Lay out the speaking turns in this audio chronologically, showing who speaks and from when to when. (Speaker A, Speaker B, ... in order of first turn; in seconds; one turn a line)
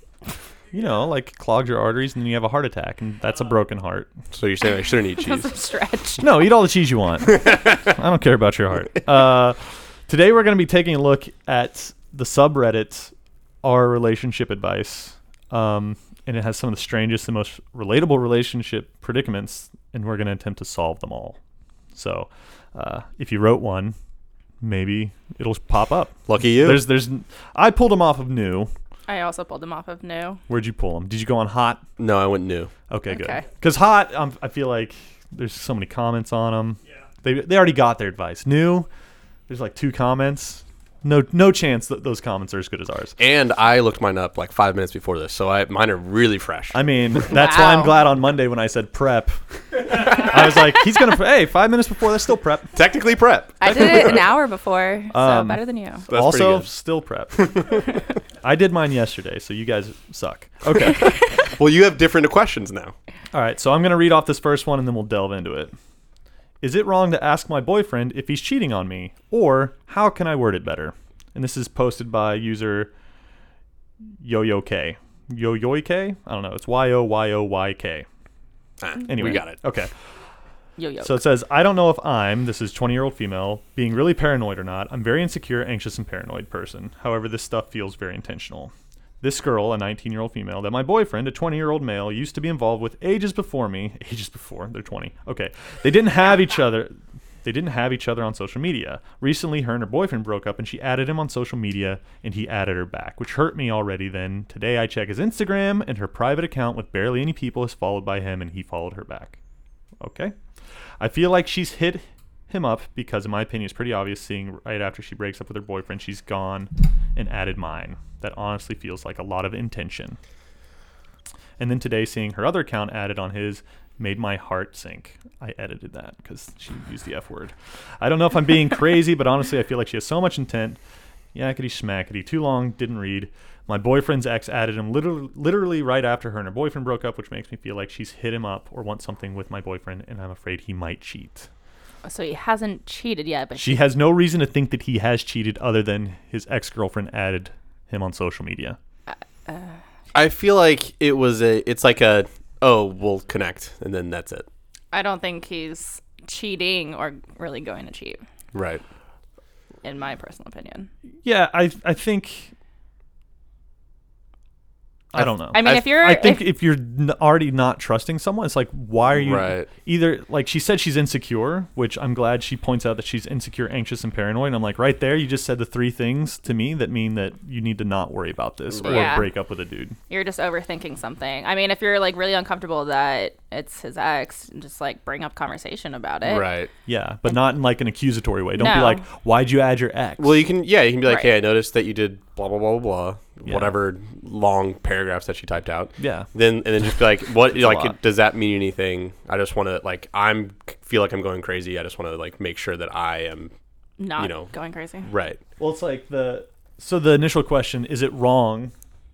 Speaker A: 0.7-4.1
Speaker B: 4.3-5.5
Speaker C: 5.2-6.3
Speaker A: 6.2-21.4
Speaker B: 7.3-7.7
Speaker A: 21.9-24.0
Speaker A: 24.6-28.7
Speaker B: 26.3-26.9
Speaker C: 29.1-30.4
Speaker A: 30.5-31.8
Speaker B: 32.0-32.7
Speaker A: 32.9-38.9
Speaker C: 33.1-33.5
Speaker A: 39.5-43.2
Speaker B: 43.2-46.8
Speaker A: 46.7-52.8
Speaker C: 47.3-48.0
Speaker B: 52.7-54.2
Speaker C: 53.6-56.0
Speaker A: 55.1-57.8
Speaker B: 56.1-56.7
Speaker B: 57.3-57.8
Speaker A: 58.4-61.1
Speaker B: 61.4-63.0
Speaker A: 63.3-65.7
Speaker A: 66.6-72.9
Speaker A: 74.2-78.1
Speaker B: 78.8-79.6
Speaker A: 79.1-79.9
Speaker C: 80.8-81.2
Speaker A: 81.0-109.4
Speaker A: 110.0-110.3
Speaker A: 111.0-120.2
Speaker A: 121.6-130.8
Speaker A: 131.3-141.5
Speaker C: 142.0-143.9
Speaker A: 143.6-148.8
Speaker C: 149.1-149.8
Speaker B: 150.1-154.5
Speaker C: 154.9-158.2
Speaker B: 158.5-158.8
Speaker C: 159.8-160.9
Speaker A: 161.2-162.5
Speaker A: 165.1-180.0
Speaker C: 165.5-166.5
Speaker B: 169.2-169.7
Speaker B: 178.7-179.2
Speaker C: 178.8-179.3
Speaker C: 180.1-186.5
Speaker B: 186.2-186.7
Speaker A: 186.9-190.4
Speaker C: 188.6-189.0
Speaker B: 190.2-203.5
Speaker C: 191.1-191.3
Speaker A: 193.4-193.8
Speaker A: 196.0-196.3
Speaker A: 197.4-198.0
Speaker C: 204.0-205.1
Speaker B: 204.2-204.5
Speaker B: 205.0-205.4
Speaker A: 205.6-208.7